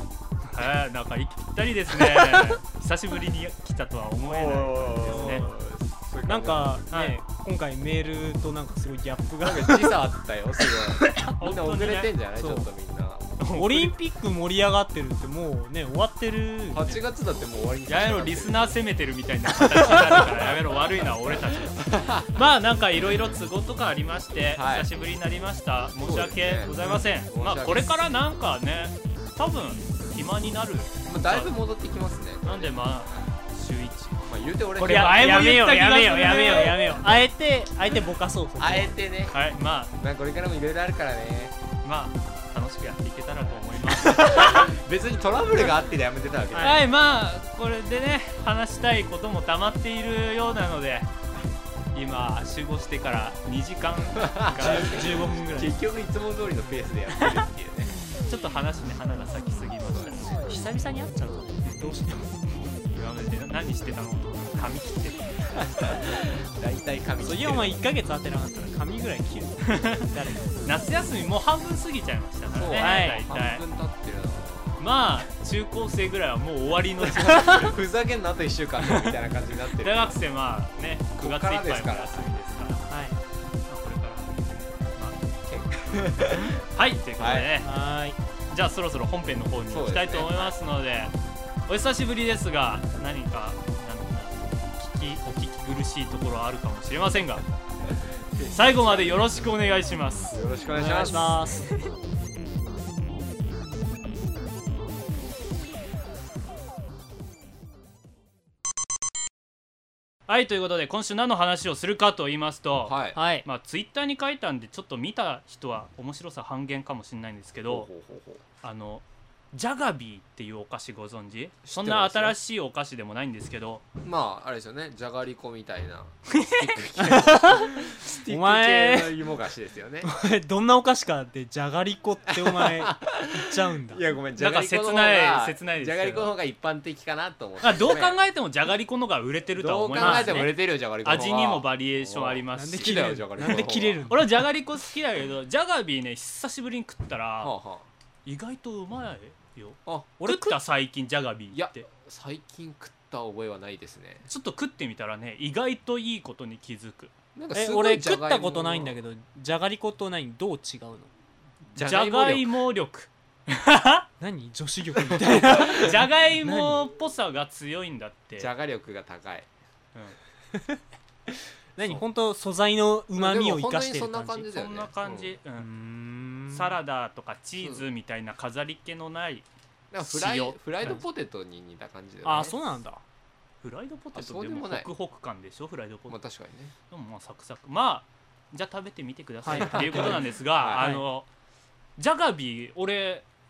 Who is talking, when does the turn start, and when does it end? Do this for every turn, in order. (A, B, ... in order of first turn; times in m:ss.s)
0:00.4-0:05.5 A
0:04.2-0:06.8 B
0:05.0-0:05.5 C
0:06.3-0:10.0 C
0:06.9-0:07.2 A
0:09.4-0:13.3 B
0:10.6-0:11.2 C
0:11.3-0:12.1 A
0:12.4-0:12.7 C
0:13.4-0:13.9 A
0:13.5-0:17.0 C
0:16.7-0:18.7 B
0:17.9-0:31.5 A
0:21.3-0:22.4 B
0:24.6-0:24.9 B
0:26.0-0:28.0 B
0:31.1-0:32.8 B
0:32.4-0:34.2 A
0:34.3-0:35.5 B
0:34.8-0:37.0 A
0:34.8-0:39.0 C
0:38.6-0:39.4 B
0:39.3-0:40.0 A
0:40.0-0:41.6 B
0:41.8-0:44.7 A
0:43.8-0:46.8 B
0:46.5-0:46.8 C
0:46.6-0:51.1 A
0:51.9-0:55.2 A
0:54.2-0:58.0 B
0:54.6-0:55.8 C
0:58.3-1:00.4 A
0:59.9-1:00.3 B
1:00.3-1:02.4 C
1:02.9-1:05.6 A
1:05.6-1:07.8 B
1:07.2-1:10.6 C
1:09.7-1:10.1 A
1:10.6-1:13.6 A
1:12.5-1:14.9 B
1:12.8-1:13.3 C
1:14.8-1:17.8 A
1:17.1-1:20.2 B
1:19.8-1:22.9 A
1:21.2-1:22.3 B
1:22.9-1:23.2 C
1:23.7-1:25.2 A
1:25.5-1:26.6 B
1:26.7-1:27.7 A
1:27.2-1:27.5 B
1:27.6-1:28.2 C
1:28.5-1:31.1 A
1:29.7-1:30.5 B
1:31.7-1:37.4 A
1:38.3-1:39.5 B
1:38.5-1:40.4 A
1:40.3-1:41.4 B
1:40.7-1:41.9 C
1:50.3-1:57.9 A
1:52.9-1:53.2 B
1:53.2-1:53.5 C
1:57.7-1:58.4 B
1:58.6-2:03.8 A
2:01.6-2:02.4 B
2:04.0-2:10.1 B
2:06.3-2:06.8 A
2:07.0-2:09.2 C
2:10.0-2:14.1 C
2:12.3-2:18.2 B
2:14.4-2:16.3 A
2:17.6-2:22.9 A
2:19.6-2:24.1 B
2:20.0-2:20.5 C
2:22.6-2:24.2 C
2:24.1-2:27.5 A
2:27.4-2:27.9 B
2:28.2-2:31.9 A
2:29.9-2:30.1 B
2:30.2-2:30.6 C
2:31.5-2:34.3 B
2:34.3-2:37.1 A
2:37.4-2:39.0 B
2:37.5-2:41.1 C
2:41.7-2:42.5 B
2:41.8-2:44.1 A
2:44.2-2:46.8 C
2:45.3-2:48.5 A
2:48.4-2:49.5 B
2:50.5-2:50.8 C
2:51.8-2:54.5 C
2:53.2-2:55.4 B
2:54.5-2:55.7 A
2:55.6-2:56.7 C
2:56.5-2:59.5 A
2:57.6-2:57.9 B
2:59.9-3:02.6 B
3:00.0-3:00.9 A
3:02.2-3:03.0 C
3:03.6-3:06.2 A
3:04.2-3:04.9 B
3:06.1-3:06.7 B
3:06.9-3:11.3 A
3:09.4-3:11.0 C
3:09.5-3:11.0 B
3:12.0-3:13.2 A